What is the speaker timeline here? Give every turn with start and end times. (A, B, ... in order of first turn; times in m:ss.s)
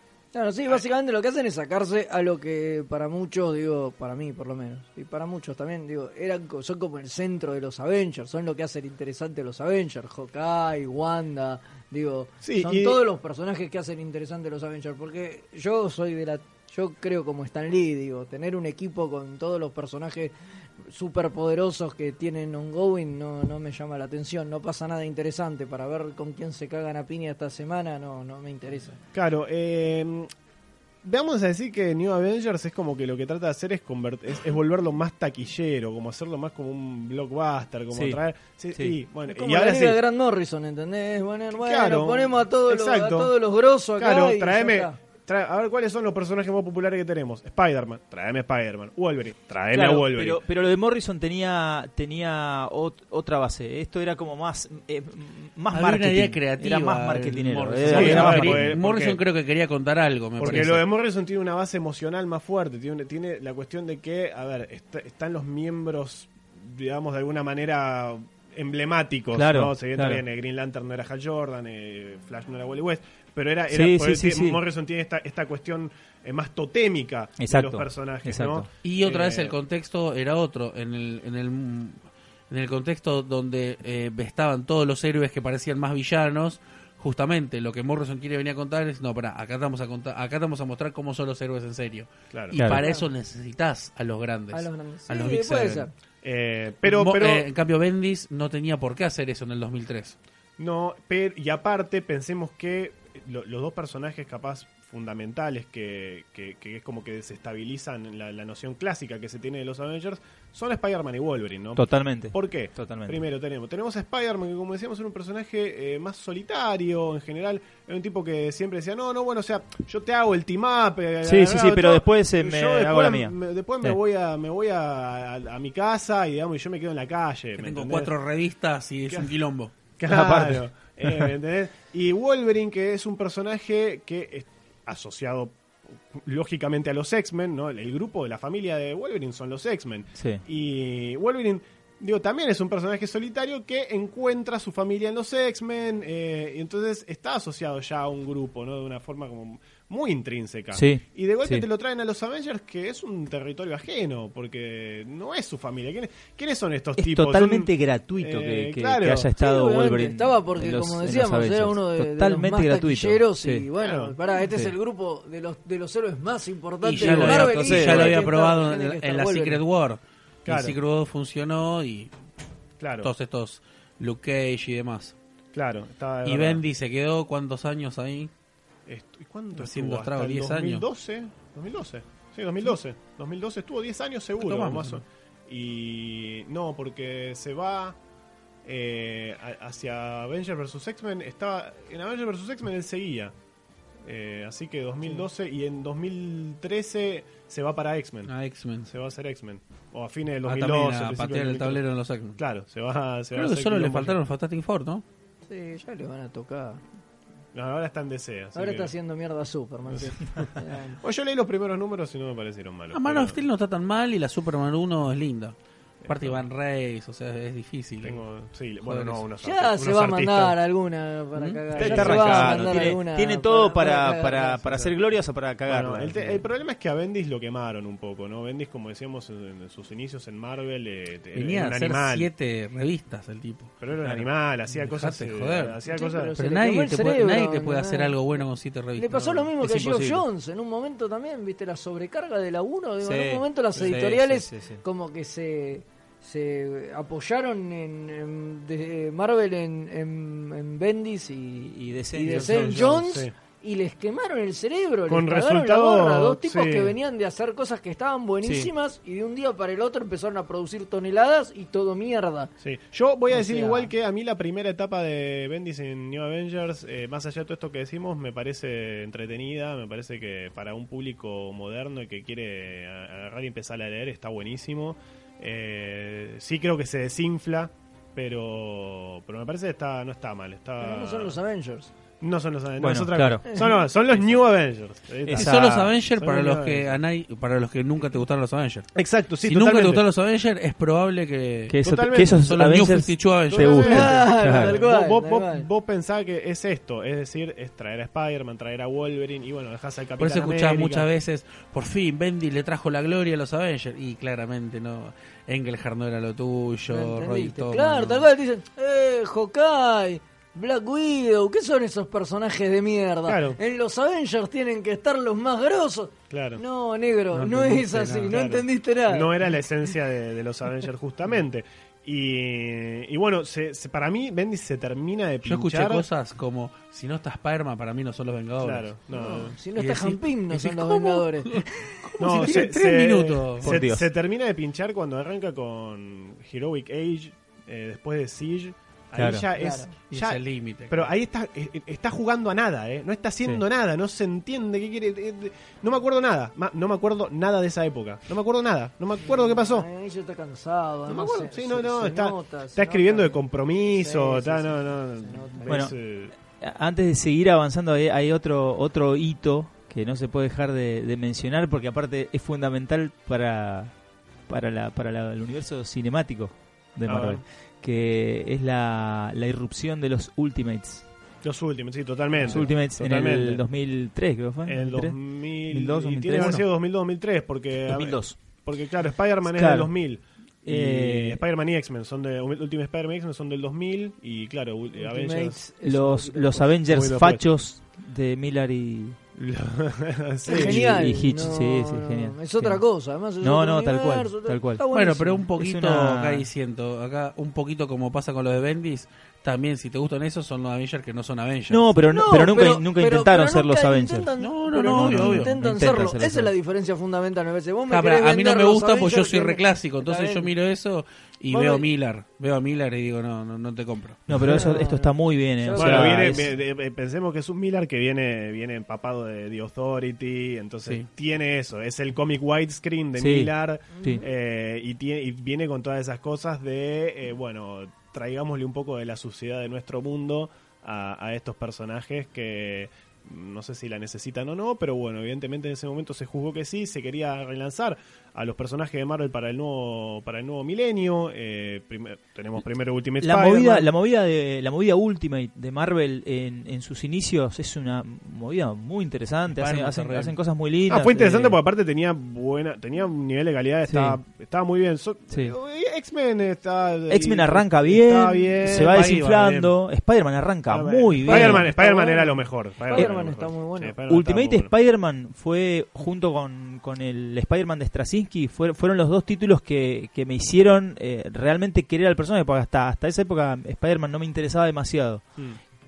0:00.3-0:29.0 A
0:12.4-0:13.0 B
0:29.1-0:30.3 B
0:31.0-0:40.0 B
0:37.9-0:38.2 C
0:39.3-0:45.0 A
0:41.5-0:43.3 B
0:44.0-0:50.4 B
0:49.7-0:58.8 C
0:55.7-1:00.8 D
0:57.8-0:59.2 B
1:00.4-1:19.6 B
1:00.4-1:00.8 C
1:09.3-1:10.2 C
1:13.7-1:14.6 C
1:17.4-1:18.7 C
1:18.8-1:22.0 D
1:22.5-1:35.9 D
1:32.3-1:32.6 B
1:32.5-1:32.8 C
1:32.6-1:33.1 A
1:34.5-1:35.9 A
1:36.2-1:37.5 B
1:36.8-1:40.2 D
1:40.6-2:08.1 B
1:51.8-1:53.2 C
2:01.2-2:04.0 C
2:07.6-2:09.7 D
2:10.0-2:15.6 B
2:10.1-2:11.3 C
2:16.1-2:39.3 B
2:20.2-2:20.4 C
2:30.7-2:31.6 C
2:37.0-2:43.7 C
2:39.4-2:49.6 A
2:43.8-2:44.1 B
2:44.4-2:44.7 C
2:46.8-2:52.1 D
2:47.0-2:48.2 C
2:50.4-2:50.8 B
2:52.8-2:53.1 B
2:53.0-2:55.1 D
2:55.5-2:56.6 B
2:56.2-2:58.3 D
2:58.9-3:08.0 B
2:59.6-3:00.8 D
3:04.4-3:05.0 D
3:08.6-3:13.3 B
3:14.0-3:18.3 B
3:18.3-3:18.9 D
3:18.8-3:21.8 B
3:20.4-3:22.4 D
3:22.4-3:24.2 B
3:23.3-3:25.0 D
3:25.5-3:26.8 A
3:27.5-3:28.9 B
3:28.5-3:31.0 A
3:29.9-3:33.4 B
3:32.9-3:38.2 D
3:36.0-3:36.4 B
3:38.0-3:40.6 B
3:38.8-3:39.2 D
3:39.4-3:44.9 A
3:41.4-3:42.2 D
3:41.8-3:42.8 B
3:41.8-3:46.4 C
3:45.7-3:52.3 B
3:51.3-3:53.7 D
3:53.8-3:56.3 B
3:54.7-3:55.8 D
3:55.9-3:58.4 A
3:56.4-3:59.5 D
3:59.0-4:22.5 A
3:59.6-4:00.2 C
4:03.0-4:04.8 C
4:11.7-4:13.0 C
4:13.0-4:13.3 B
4:15.1-4:16.9 B
4:18.4-4:18.7 C
4:22.6-4:41.4 B
4:23.3-4:23.9 A
4:40.8-4:41.9 A
4:42.2-4:47.0 B
4:42.8-4:43.4 C
4:43.5-4:43.8 A
4:45.2-4:45.9 C
4:45.3-4:48.9 D
4:48.9-4:50.0 B
4:49.4-4:54.0 D
4:51.7-4:54.8 C
4:51.8-4:52.5 B
4:53.5-5:01.1 B
4:53.7-4:55.6 A
5:00.2-5:08.3 D
5:06.9-5:19.5 A
5:13.3-5:13.6 B
5:16.3-5:16.6 B
5:17.4-5:26.0 B
5:17.4-5:18.3 D
5:25.4-5:28.9 D
5:28.6-5:29.6 B
5:29.1-5:32.0 A
5:29.7-5:33.8 D
5:32.2-5:49.9 B
5:33.6-5:34.0 C
5:39.1-5:39.4 C
5:39.5-5:39.9 A
5:40.1-5:41.1 D
5:49.2-5:55.8 A
5:51.1-5:56.3 B
5:55.7-5:55.9 C
5:56.5-6:03.9 C
6:04.5-6:11.0 C
6:07.1-6:07.4 B
6:11.4-6:13.6 B
6:12.4-6:15.2 C
6:14.6-6:25.6 B
6:15.7-6:16.6 C
6:17.9-6:18.4 C
6:19.4-6:19.9 C
6:20.6-6:21.4 C
6:25.0-6:26.7 A
6:25.8-6:29.2 C
6:26.9-6:27.4 B
6:29.4-6:31.0 B
6:30.4-6:35.5 A
6:30.5-6:32.8 C
6:33.4-6:34.8 C
6:34.9-6:41.8 D
6:35.6-6:36.5 C
6:41.7-6:44.3 C
6:42.0-6:50.5 A
6:44.4-6:45.5 D
6:44.8-6:46.5 C
6:47.9-6:54.2 D
6:51.5-6:51.9 A
6:54.3-6:56.5 C
6:54.4-6:56.5 A
6:55.7-7:23.9 B
7:03.2-7:03.5 C
7:04.0-7:04.3 A
7:23.2-7:31.6 C
7:29.5-7:30.4 D
7:30.9-7:39.4 B
7:33.9-7:34.2 C
7:37.1-7:41.7 C
7:38.6-7:39.7 D
7:40.7-7:44.7 B
7:41.2-7:44.0 A
7:44.1-7:55.2 C